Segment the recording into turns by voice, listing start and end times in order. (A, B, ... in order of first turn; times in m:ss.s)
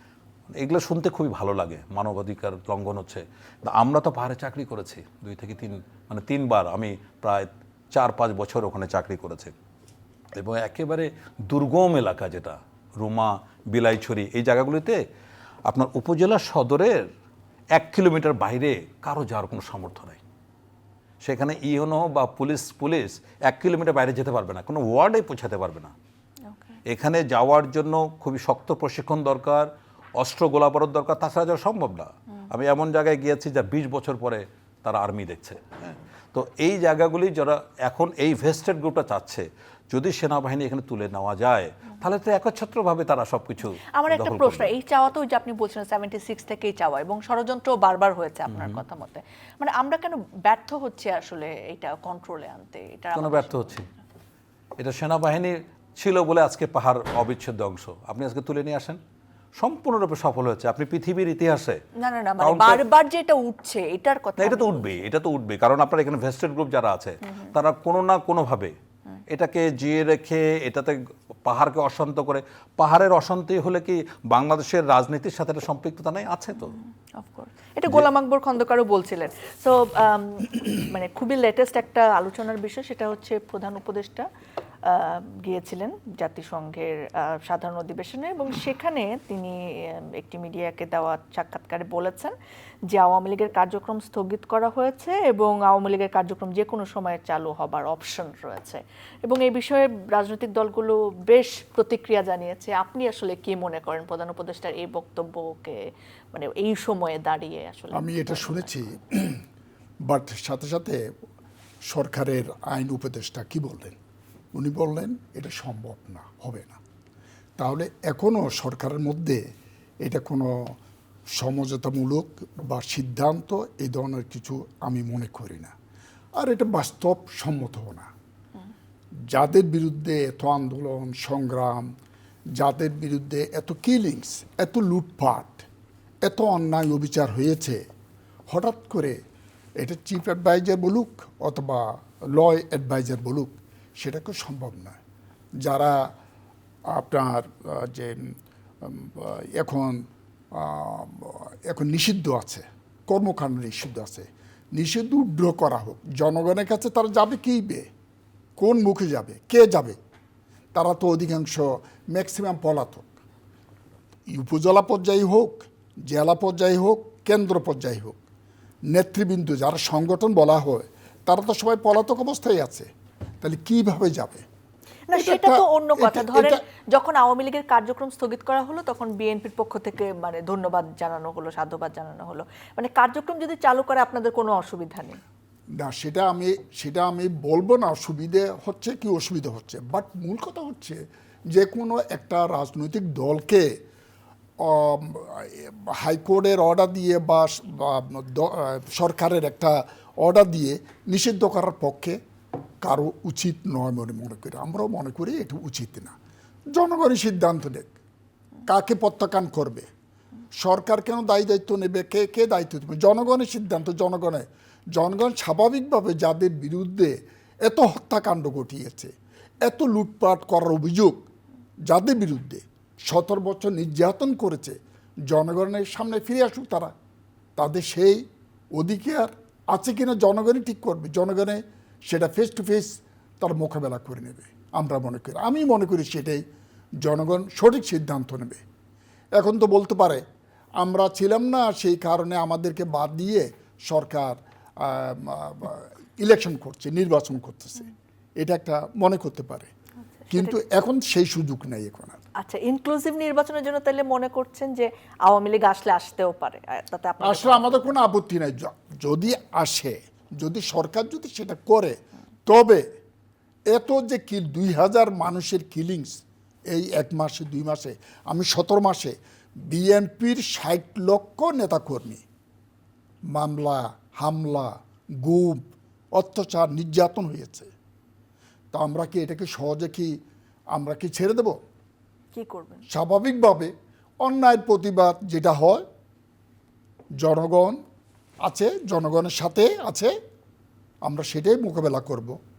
0:00.6-0:09.5 A
0:10.4-0:15.0 A
0:15.7-0:17.1 A
0:17.7-0:20.2 A
0:21.2-0:25.9 A
0:26.5-0:26.8 B
0:26.9-0:44.7 A
0:43.9-0:53.7 B
0:48.5-0:48.8 A
0:53.2-0:53.9 A
0:54.8-0:59.0 A
0:59.6-1:01.8 A
1:02.0-1:05.0 B
1:02.4-1:02.8 A
1:04.4-1:08.8 A
1:07.3-1:07.5 B
1:09.3-1:16.8 A
1:17.2-1:24.3 B
1:24.8-1:32.4 B
1:32.9-1:48.7 B
1:47.9-1:49.4 C
1:50.0-1:51.0 C
1:51.9-1:54.0 C
1:54.5-1:56.8 C
1:57.6-1:59.5 C
2:00.0-2:00.8 C
2:01.3-2:05.7 C
2:06.4-2:08.1 C
2:09.3-2:11.9 C
2:12.6-2:15.7 C
2:16.2-2:17.8 C
2:18.5-2:19.2 C
2:19.8-2:25.0 C
2:25.6-2:26.1 C
2:26.9-2:37.9 C
2:38.6-2:40.0 C
2:40.7-2:43.2 C
2:44.3-2:48.2 C
2:48.9-2:52.9 C
2:53.4-2:54.4 C
2:55.1-3:05.2 B
2:55.1-2:56.6 C
3:05.8-3:13.8 C
3:14.6-3:22.2 C
3:22.8-3:26.2 C
3:26.7-3:27.9 C
3:28.7-3:29.9 C
3:30.6-3:41.3 C
3:41.9-3:44.8 C
3:45.3-3:46.9 C
3:47.6-3:48.2 C
3:48.8-3:56.4 C
3:57.0-3:58.6 C
3:59.4-4:00.2 C
4:00.8-4:09.7 C
4:10.2-4:10.6 B
4:10.3-4:12.2 C
4:12.4-4:17.9 B
4:17.2-4:22.9 C
4:23.7-4:32.2 C
4:33.3-4:37.7 C
4:38.7-4:40.2 C
4:40.7-4:41.6 C
4:42.3-4:42.8 B
4:42.9-4:45.8 C
4:47.2-4:47.8 C
4:48.4-4:50.1 C
4:51.0-4:52.4 C